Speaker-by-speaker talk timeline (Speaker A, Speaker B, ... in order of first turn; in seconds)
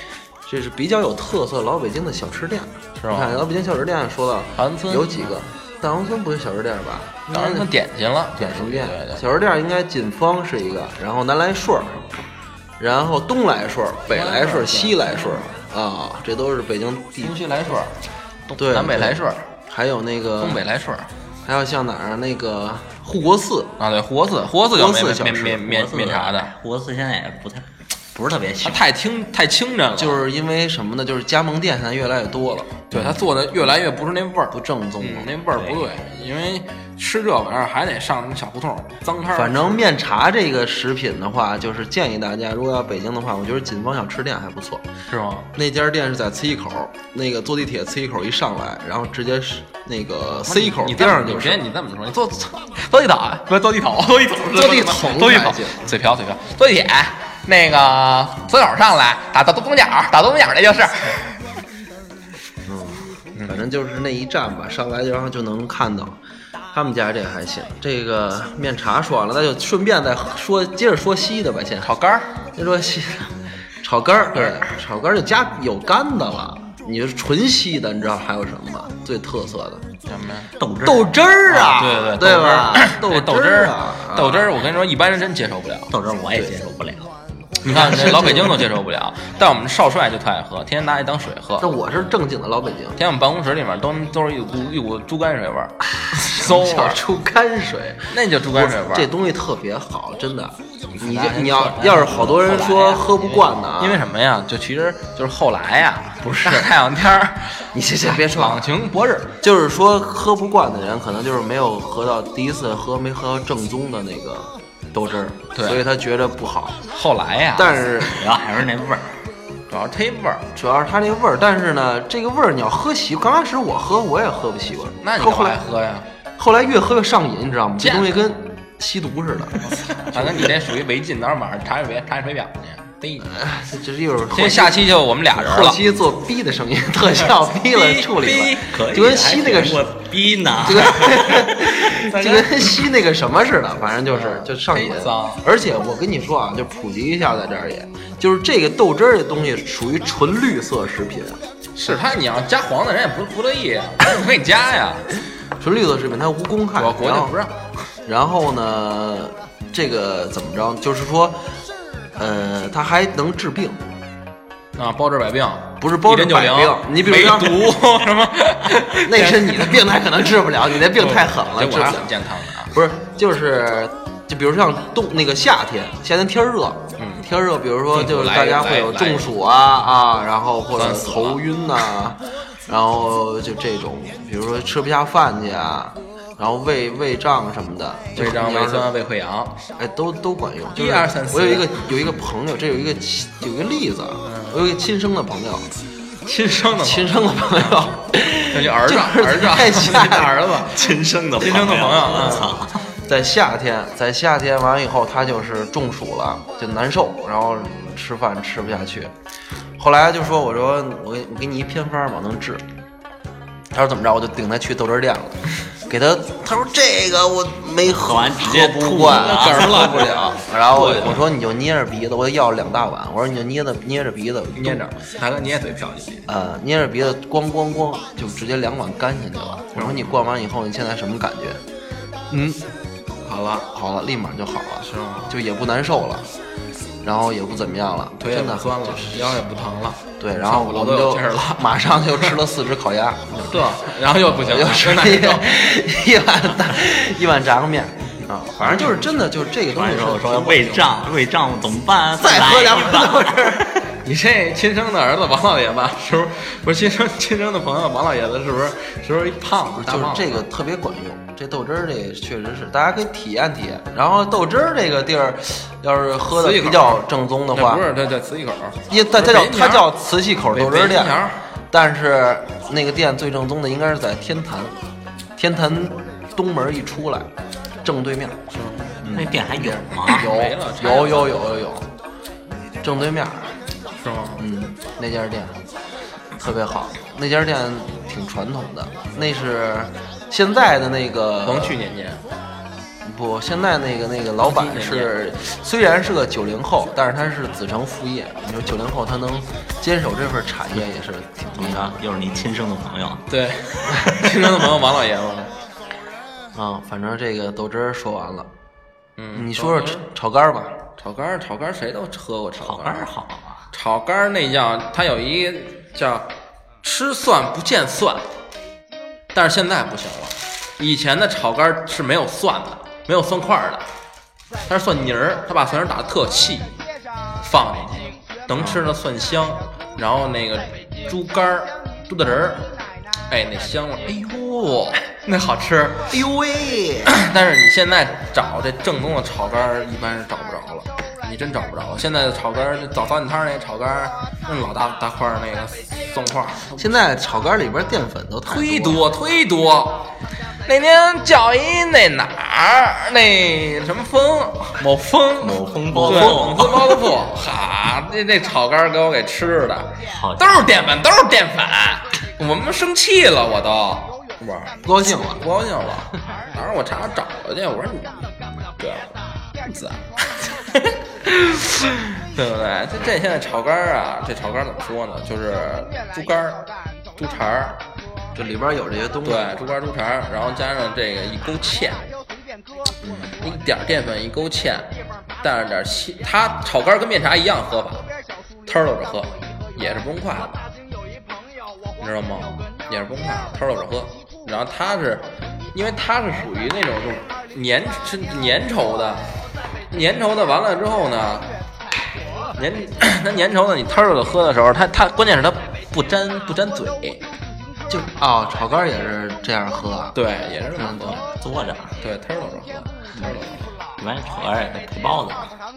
Speaker A: 0.5-7.7, 8.3-12.1, 12.8-17.4, 18.6-20.6, 21.4-23.7, 24.7-25.7, 29.9-33.2, 34.5-35.3, 39.3-44.8, 45.5-51.6, 54.4-55.9, 62.6-66.2, 66.7-71.9, 72.5-79.8, 80.8-84.5, 87.6-88.7, 91.6-93.0, 96.1-104.0, 106.2-106.7, 107.7-108.7, 109.4-116.8, 117.5-118.2, 120.5-125.6, 126.4-130.5, 133.3-139.9, 140.6-151.4, 155.6-157.3, 158.1-161.4, 162.2-163.8, 165.8-167.8, 169.0-188.9, 189.8-195.7, 196.7-200.5, 202.1-209.1, 209.8-212.6, 213.7-224.8, 226.3-231.6, 232.3-232.6, 233.7-236.3, 237.0-239.4, 240.2-250.9, 252.2-253.8, 259.8-267.9, 268.9-274.8, 275.4-277.3, 277.8-278.4, 279.0-281.9, 282.8-283.5, 284.4-285.6, 286.3-291.8, 293.0-302.0, 306.5-308.5, 309.3-310.8, 328.5-328.9, 336.1-337.1, 346.8-349.0, 355.9-356.5, 364.8-365.4, 378.3-379.5, 383.0-383.3, 407.9-410.1, 410.8-411.2
Speaker B: 3.0-3.4, 4.5-5.5, 7.3-9.2, 14.1-15.5, 17.2-17.9, 18.5-19.5, 20.4-21.1, 23.8-26.5, 28.6-30.2, 32.9-39.8, 45.1-45.5, 50.4-61.4, 71.8-72.3, 74.3-74.6, 80.0-80.5, 81.5-85.9, 87.7-91.7, 93.0-97.0, 98.1-99.1, 100.9-109.4, 115.5-115.8, 116.9-118.1, 119.7-120.5, 125.0-126.1, 127.8-128.2, 129.6-133.3, 134.3-135.8, 137.2-138.7, 144.1-145.4, 151.7-155.1, 156.7-157.7, 164.8-169.8, 170.8-172.7, 177.0-177.3, 177.9-179.3, 180.8-181.4, 188.2-189.6, 190.7-191.8, 194.2-194.6, 196.2-197.8, 198.3-202.5, 219.0-221.2, 224.5-226.2, 229.7-230.2, 233.2-233.7, 234.8-235.3, 238.2-241.7, 243.4-245.6, 248.6-249.1, 253.9-260.4, 266.3-269.9, 270.5-271.4, 278.5-279.0, 280.1-281.7, 284.0-284.4, 291.4-292.2, 294.4-295.1, 303.3-305.5, 309.2-310.1, 311.0-313.1, 313.7-316.3, 316.8-318.2, 319.3-323.8, 324.7-326.8, 327.4-332.7, 333.3-336.1, 337.1-346.9, 348.5-350.1, 350.6-377.8, 379.2-382.0, 383.4-388.1, 388.6-390.7, 392.0-399.3, 399.9-401.5, 402.5-407.2, 410.1-411.2, 412.0-413.7
Speaker C: 25.6-28.8, 80.6-81.1, 85.9-87.1, 118.2-119.2, 138.3-142.9, 200.7-202.9, 217.9-219.8, 249.7-253.7, 279.1-280.3, 301.5-303.2, 304.0-304.3, 312.6-313.6, 355.4-357.1, 360.1-360.8, 411.3-411.9, 414.0-415.5